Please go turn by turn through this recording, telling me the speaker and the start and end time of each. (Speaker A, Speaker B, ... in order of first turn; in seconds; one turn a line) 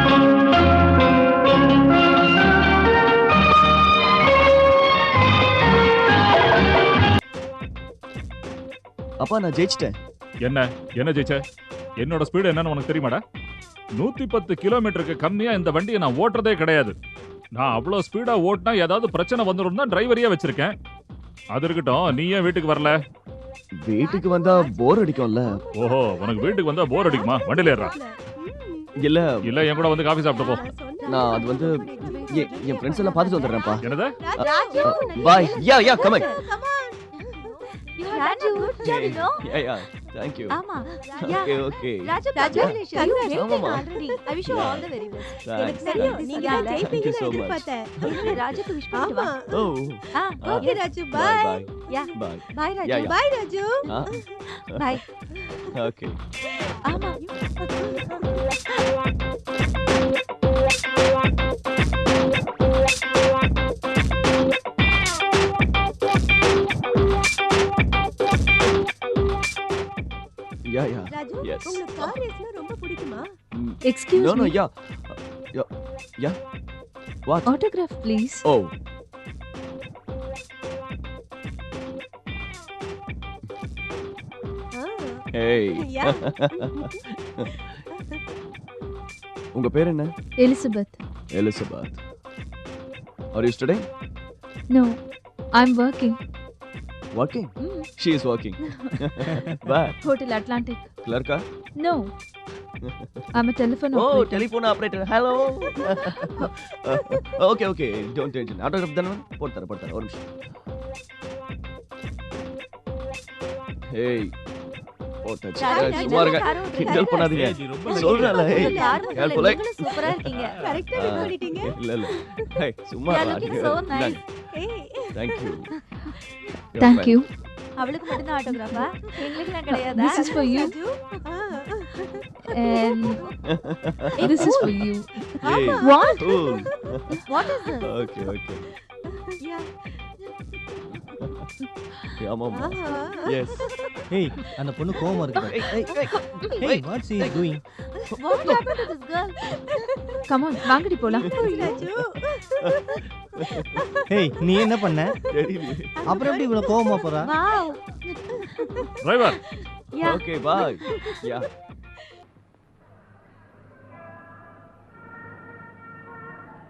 Speaker A: 9.2-9.9
Speaker B: 10.4-11.4
Speaker B: 12.0-13.2
Speaker B: 14.0-16.9
Speaker B: 17.6-20.7
Speaker B: 21.5-22.9
Speaker A: 23.8-25.6
Speaker C: 24.0-28.9
Speaker B: 25.8-27.9
Speaker A: 29.0-29.6
Speaker B: 29.4-30.7
Speaker C: 29.6-39.5
Speaker A: 31.1-33.8
Speaker D: 31.1-31.4
Speaker D: 32.0-33.2
Speaker B: 33.8-34.1
Speaker D: 34.4-36.4
Speaker A: 34.4-36.3
Speaker D: 38.0-39.4
Speaker A: 38.8-40.6
Speaker D: 40.5-47.1
Speaker C: 40.9-49.6
Speaker A: 41.2-43.9
Speaker A: 44.4-44.9
Speaker A: 45.4-48.7
Speaker D: 48.0-49.4
Speaker A: 49.5-53.1
Speaker D: 50.1-50.8
Speaker C: 50.4-52.1
Speaker D: 51.9-53.0
Speaker C: 52.8-54.4
Speaker A: 53.9-54.2
Speaker D: 54.6-55.0
Speaker A: 54.7-55.0
Speaker C: 55.4-55.8
Speaker A: 55.7-56.2
Speaker C: 56.6-58.4
Speaker D: 56.8-57.2
Speaker A: 70.7-72.2
Speaker C: 71.1-73.3
Speaker A: 73.5-76.4
Speaker E: 73.8-74.5
Speaker E: 77.5-78.4
Speaker A: 78.4-78.7
Speaker C: 84.7-88.2
Speaker A: 85.3-87.5
Speaker A: 89.5-90.1
Speaker E: 90.4-91.0
Speaker A: 91.3-92.0
Speaker A: 93.3-93.8
Speaker E: 95.6-96.2
Speaker A: 97.1-100.0
Speaker E: 98.7-99.3
Speaker E: 100.0-100.9
Speaker A: 101.0-101.4
Speaker E: 101.8-102.1
Speaker A: 102.8-103.3
Speaker E: 103.3-104.5
Speaker A: 103.9-110.3
Speaker C: 105.6-107.2
Speaker A: 113.9-114.3
Speaker A: 115.2-120.1
Speaker D: 115.6-120.5
Speaker C: 115.6-122.5
Speaker A: 120.9-124.2
Speaker D: 123.1-124.2
Speaker C: 124.5-125.6
Speaker A: 125.1-125.7
Speaker A: 126.7-127.2
Speaker E: 126.8-127.2
Speaker D: 127.8-130.7
Speaker C: 129.0-133.4
Speaker E: 129.2-130.7
Speaker E: 132.5-133.2
Speaker A: 133.4-134.8
Speaker E: 134.2-135.1
Speaker C: 134.2-134.7
Speaker A: 135.3-137.2
Speaker C: 135.4-137.9
Speaker E: 135.8-136.2
Speaker D: 137.3-137.9
Speaker A: 137.8-138.6
Speaker C: 139.4-139.7
Speaker C: 140.8-141.2
Speaker A: 142.2-143.7
Speaker C: 142.5-144.1
Speaker F: 144.1-145.9
Speaker C: 145.0-145.9
Speaker A: 145.3-147.4
Speaker F: 146.6-147.6
Speaker C: 147.9-148.9
Speaker A: 148.1-148.7
Speaker D: 148.2-149.3
Speaker C: 149.4-154.0
Speaker E: 150.3-151.4
Speaker A: 151.2-152.0
Speaker A: 152.6-153.8
Speaker F: 154.1-155.2
Speaker C: 154.6-154.9
Speaker A: 155.3-156.0
Speaker C: 156.0-157.3
Speaker F: 156.0-157.3
Speaker D: 157.2-157.8
Speaker C: 158.2-159.4
Speaker B: 159.0-159.4
Speaker A: 160.0-161.5
Speaker C: 160.6-161.2